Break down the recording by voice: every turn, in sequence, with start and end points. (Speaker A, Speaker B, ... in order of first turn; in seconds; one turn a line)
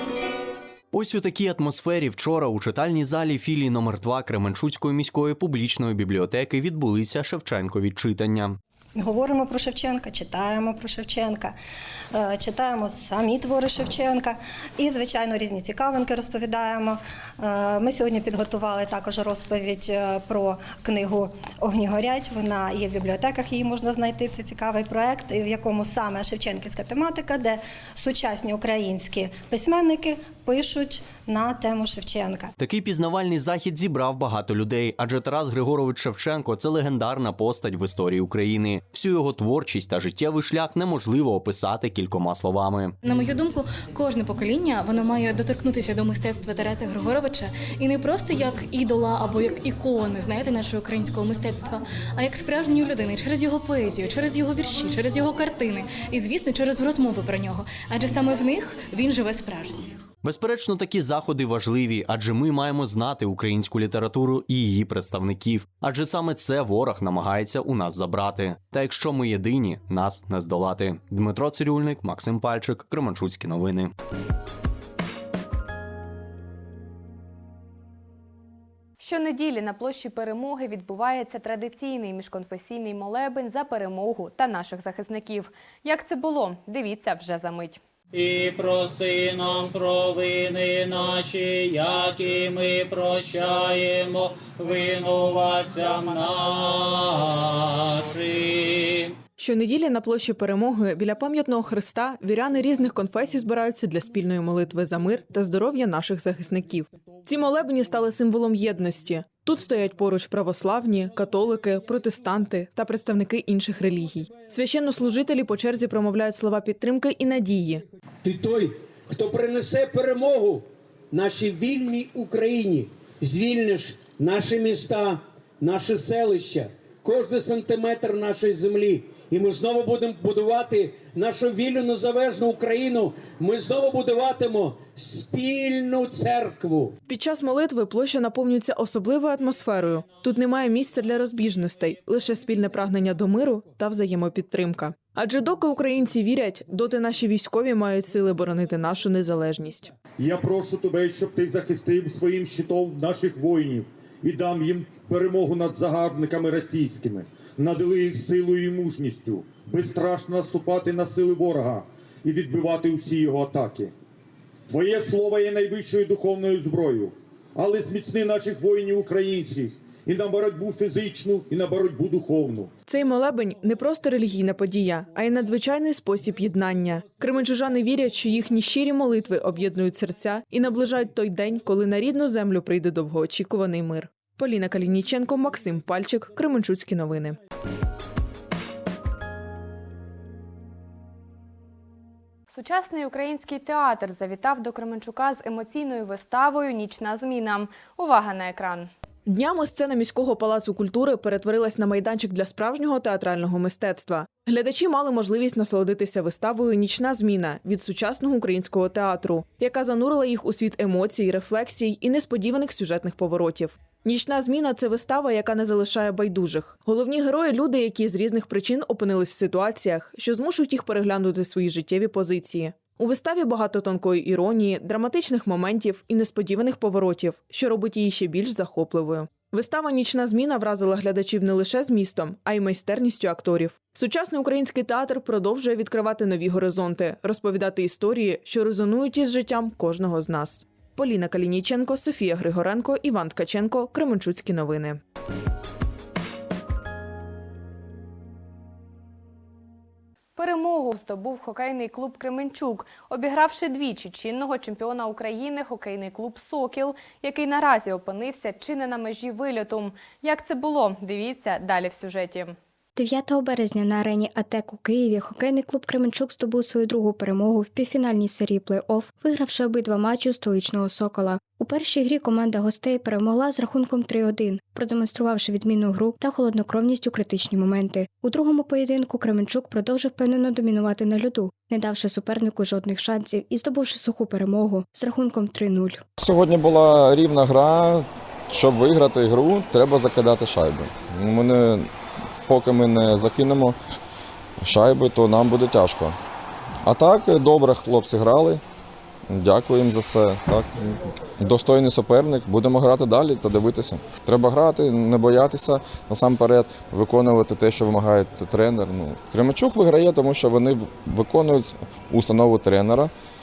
Speaker A: 0.9-8.6
Speaker B: 9.0-11.6
Speaker B: 12.1-32.5
Speaker A: 32.6-42.9
Speaker C: 43.0-59.9
Speaker A: 60.2-73.9
Speaker D: 79.0-87.8
Speaker E: 88.2-99.1
Speaker F: 99.4-117.8
Speaker G: 118.2-136.9
Speaker F: 137.1-149.9
Speaker H: 150.2-163.9
Speaker H: 164.7-172.7
Speaker F: 172.9-187.4
Speaker D: 192.5-198.9
Speaker F: 199.2-245.0
Speaker D: 250.3-262.6
Speaker I: 262.9-286.0
Speaker J: 286.2-291.9
Speaker J: 292.5-293.7
Speaker J: 294.6-296.1
Speaker J: 296.8-298.6
Speaker J: 299.3-313.1